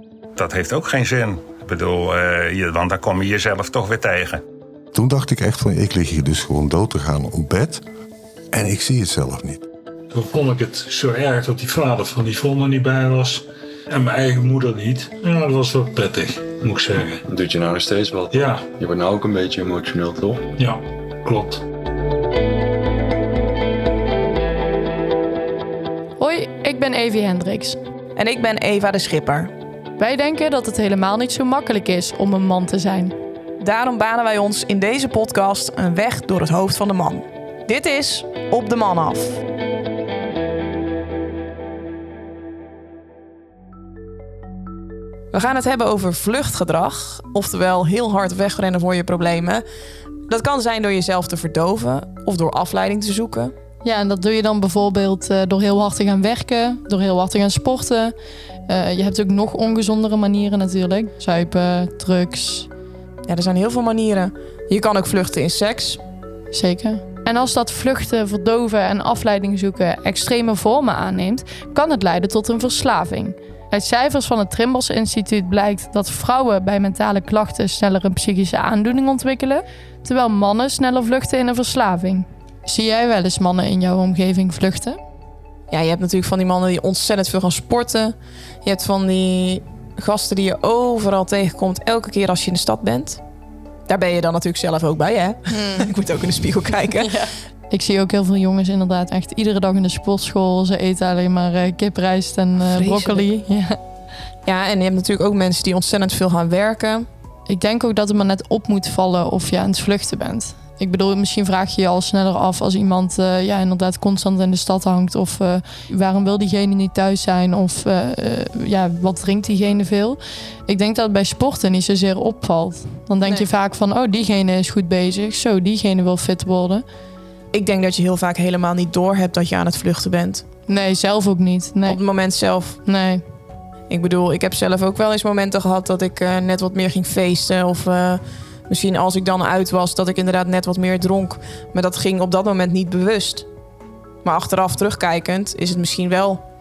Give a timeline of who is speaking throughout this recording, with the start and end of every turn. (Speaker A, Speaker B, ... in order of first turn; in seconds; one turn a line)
Speaker A: 0.4-4.4
Speaker B: 4.9-7.8
Speaker B: 8.5-9.7
Speaker C: 10.1-17.2
Speaker D: 17.3-20.4
Speaker C: 18.3-18.7
Speaker C: 20.6-21.6
Speaker E: 26.2-27.8
Speaker F: 28.2-29.5
Speaker E: 30.0-33.1
Speaker F: 33.6-39.4
Speaker F: 45.3-49.6
Speaker F: 50.3-53.5
Speaker E: 53.8-58.1
Speaker E: 58.7-62.7
Speaker F: 63.3-66.0
Speaker E: 66.5-85.0
Speaker F: 85.7-93.2
Speaker F: 93.9-97.2
Speaker E: 95.5-95.9
Speaker E: 97.0-103.8
Speaker F: 102.6-103.3
Speaker F: 104.5-107.1
Speaker E: 107.5-126.8
Speaker F: 127.5-130.4
Speaker E: 130.7-132.0
Speaker F: 131.9-132.8
Speaker E: 132.8-133.2
Speaker F: 133.9-143.5
Speaker F: 144.2-146.4